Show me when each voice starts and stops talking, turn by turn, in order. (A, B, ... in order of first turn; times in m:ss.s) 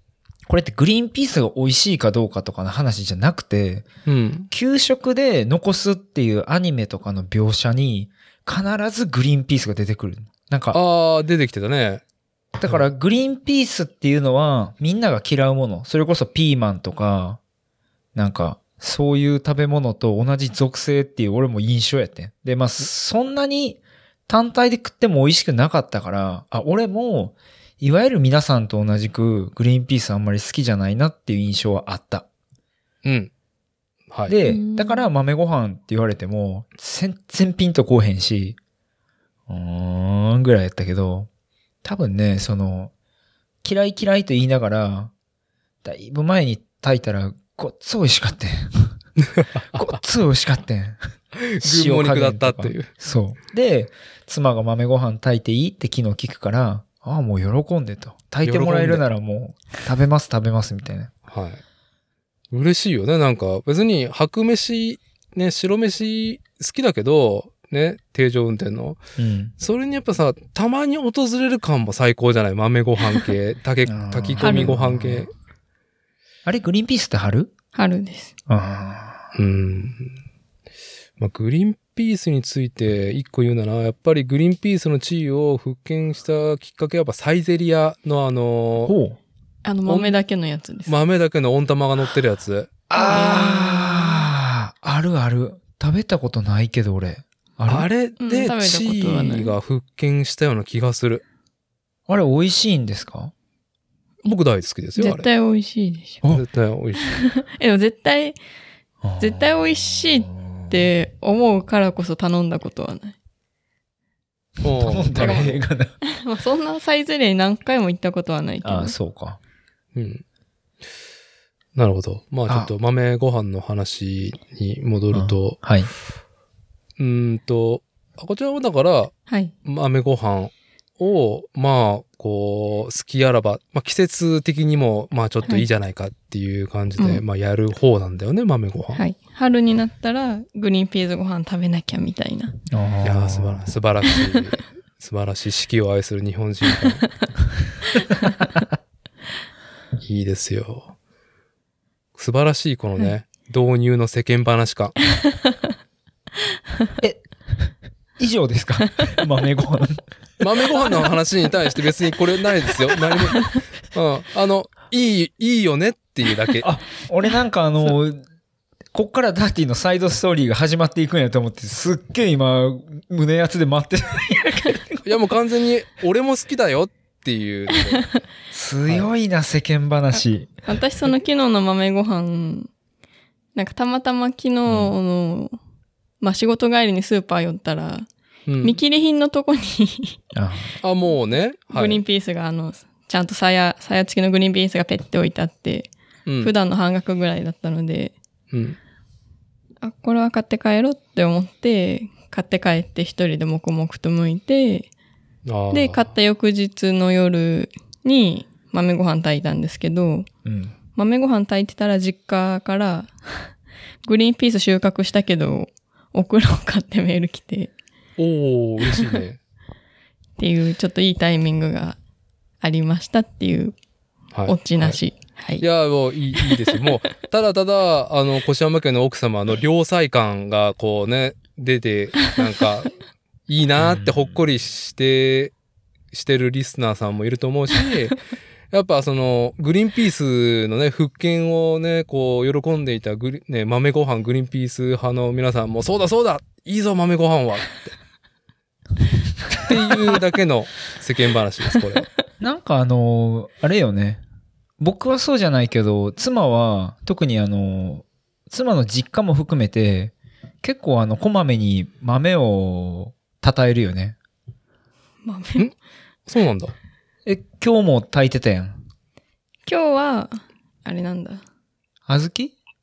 0:00.5-0:03.9 A
0:04.1-0:04.5 B
0:04.5-0:10.8 A
0:10.7-0:12.0 B
0:12.6-0:17.4 A
0:18.2-0:32.3 A
0:33.0-0:33.3 B
0:34.3-0:38.6 A
0:34.4-0:35.1 C
0:39.5-0:41.3 A
0:41.8-0:42.9 A
0:43.6-0:45.1 A
0:45.8-0:49.0 A
0:49.2-0:50.0 B
0:49.7-0:51.1 A
0:51.4-0:52.9 B
0:51.6-1:01.1 A
0:58.4-0:59.0 B
1:01.3-1:01.6 B
1:02.5-1:09.0 B
1:09.2-1:09.5 A
1:09.6-1:15.3 B
1:13.8-1:15.3 A
1:14.4-1:14.7 C
1:16.4-1:17.5 A
1:17.8-1:18.3 C
1:18.5-1:19.3 A
1:19.4-1:20.1 B
1:21.2-1:28.9 B
1:28.8-1:29.2 A
1:29.6-1:31.0 C
1:29.9-1:30.1 B
1:30.9-1:32.8 B
1:32.9-1:37.9 A
1:32.9-1:34.3 C
1:37.7-1:41.2 B
1:38.2-1:39.5 C
1:42.1-1:43.3 A
1:44.2-1:45.3 B
1:45.0-1:46.2 C
1:46.3-1:47.2 B
1:47.1-1:48.4 C
1:49.0-1:50.9 A
1:49.2-1:53.2 C
1:54.6-1:55.6 B
1:54.8-1:56.0 A
1:55.2-1:55.5 C
1:56.1-1:59.0 C
1:58.6-1:59.4 A
2:00.0-2:00.2 B
2:01.8-2:05.6 B
2:05.1-2:05.9 A
2:07.0-2:19.0 B
2:17.0-2:17.2 C
2:19.0-2:22.6 C
2:22.7-2:23.7 A
2:23.0-2:27.2 B
2:30.0-2:30.9 B
2:32.2-2:35.0 B
2:35.2-2:35.6 C
2:37.0-2:40.0 A
2:40.4-2:46.7 B
2:43.3-2:43.6 C
2:46.6-2:48.2 A
2:48.9-2:55.0 A
2:55.0-2:58.1 B
2:58.5-3:00.5 A
3:00.1-3:02.7 C
3:03.6-3:05.6 C
3:04.7-3:04.9 A
3:06.2-3:08.1 C
3:08.5-3:08.8 B
3:08.6-3:10.2 C
3:10.3-3:10.8 A
3:10.8-3:12.0 B
3:11.7-3:15.9 C
3:16.3-3:16.5 B
3:16.4-3:18.1 C
3:18.5-3:18.8 B
3:19.8-3:24.9 C
3:25.5-3:26.1 B
3:25.7-3:30.3 C
3:30.4-3:30.7 A
3:31.0-3:33.5 C
3:34.0-3:37.7 C
3:38.2-3:39.4 B
3:40.4-3:42.0 C
3:42.6-3:43.8 C
3:44.3-3:45.0 B
3:44.5-3:45.6 C
3:45.6-3:52.9 B
3:46.4-3:46.8 C
3:53.5-3:55.5 B
3:53.8-3:54.4 A
3:56.1-4:07.9 B
4:09.6-4:12.1 B
4:12.4-4:14.2 A
4:14.8-4:24.2 A
4:25.2-4:25.7 C
4:26.3-4:26.7 B
4:27.2-4:28.8 A
4:29.7-4:31.4 C
4:32.1-4:32.5 A